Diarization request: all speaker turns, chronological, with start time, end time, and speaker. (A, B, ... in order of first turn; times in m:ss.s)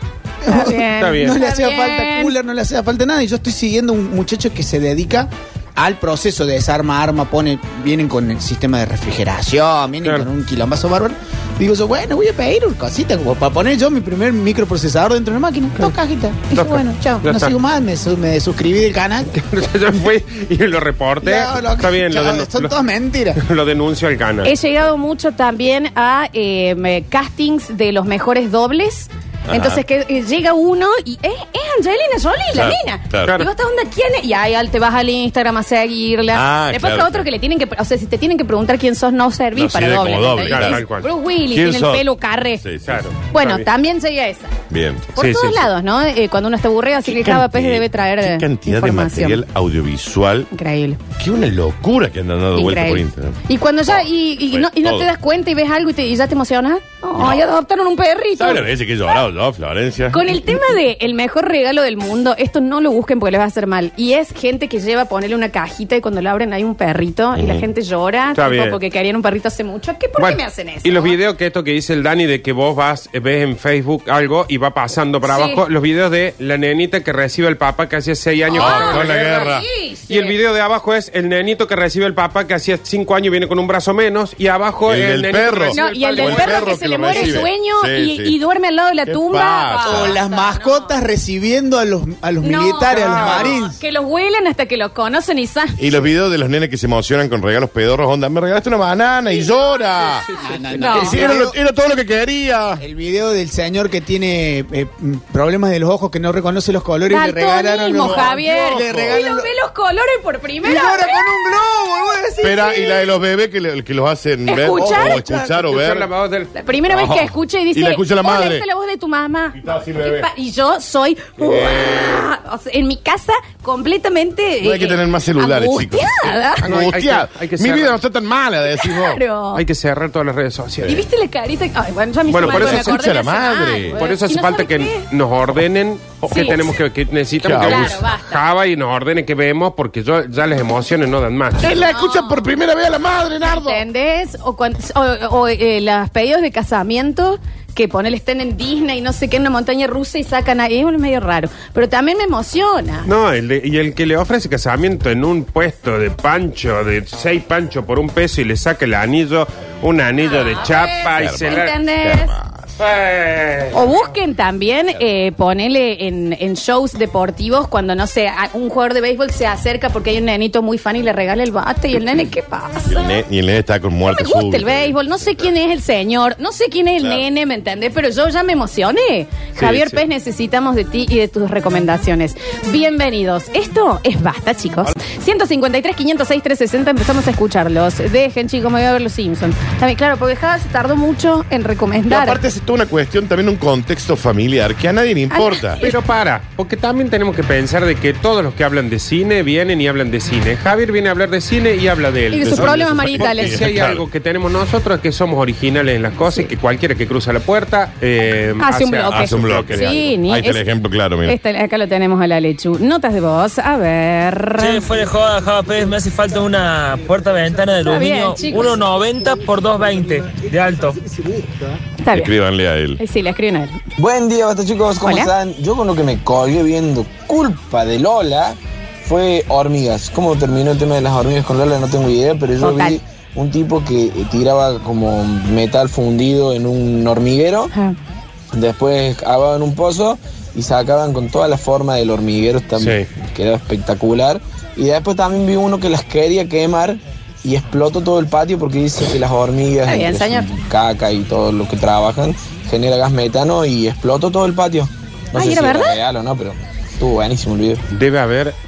0:00.4-0:19.3 A
0:00.5-0:02.3 B
0:01.0-0:01.4 C
0:16.5-0:17.5 C
0:19.3-0:22.7 C
0:21.2-0:23.4 A
0:23.4-0:24.5 C
0:24.4-0:42.6 B
0:29.5-0:29.8 D
0:32.5-0:33.3 D
0:36.3-0:37.3 D
0:39.5-0:40.8 D
0:40.4-0:41.1 C
0:41.5-0:43.0 D
0:42.8-0:43.6 C
0:43.3-0:44.6 B
0:44.7-0:45.1 D
0:45.1-0:49.4 B
0:45.2-0:45.7 C
0:47.0-0:50.5 D
0:50.5-0:51.0 B
0:51.2-0:55.1 D
0:52.5-0:58.7 B
0:57.2-0:57.4 D
0:58.4-1:00.4 D
1:00.1-1:11.2 B
1:07.3-1:07.6 D
1:08.3-1:08.8 C
1:10.2-1:19.5 C
1:15.2-1:15.6 B
1:18.5-1:20.4 B
1:18.5-1:19.6 D
1:20.1-1:27.4 C
1:24.8-1:28.3 D
1:25.7-1:30.9 B
1:29.0-1:30.2 D
1:29.8-1:33.8 A
1:32.4-1:35.8 B
1:32.9-1:33.5 C
1:35.8-1:42.8 D
1:40.3-1:41.5 A
1:40.7-1:41.3 B
1:42.8-1:49.5 A
1:47.1-1:51.2 B
1:47.9-1:49.2 D
1:50.6-1:52.9 A
1:52.4-1:56.1 D
1:52.4-1:52.9 B
1:54.5-1:55.2 B
1:54.7-1:55.5 A
1:55.5-1:56.5 C
1:56.5-2:06.7 B
1:56.9-1:58.6 D
1:59.5-2:00.3 D
2:01.4-2:02.3 D
2:04.6-2:09.2 D
2:06.6-2:08.0 C
2:08.8-2:09.6 B
2:09.5-2:11.0 C
2:10.8-2:15.0 B
2:12.3-2:13.0 C
2:12.3-2:14.0 D
2:14.0-2:21.7 C
2:16.2-2:16.6 B
2:17.4-2:18.0 D
2:17.6-2:18.4 B
2:21.6-2:23.8 D
2:21.6-2:22.5 B
2:23.4-2:33.1 B
2:33.0-2:41.7 C
2:40.2-2:42.3 B
2:41.1-2:42.7 D
2:42.8-2:43.8 C
2:43.7-2:53.1 B
2:52.9-2:55.4 D
2:54.0-3:12.4 B
2:57.0-2:57.2 D
2:59.6-3:00.0 C
3:12.1-3:15.8 D
3:15.3-3:16.0 B
3:15.8-3:30.0 C
3:22.3-3:23.6 B
3:22.4-3:24.0 D
3:26.2-3:26.5 B
3:28.6-3:30.6 B
3:29.1-3:31.4 D
3:31.2-3:34.9 B
3:34.6-3:41.0 E
3:37.8-3:38.8 B
3:42.0-3:42.3 B
3:42.1-3:43.0 D
3:43.0-3:43.8 B
3:44.0-3:57.7 F
3:45.0-3:45.3 B
3:52.6-3:53.0 B
3:58.5-4:17.8 F
4:02.8-4:03.1 C
4:09.8-4:10.5 B
4:15.3-4:16.0 B
4:17.9-4:18.5 C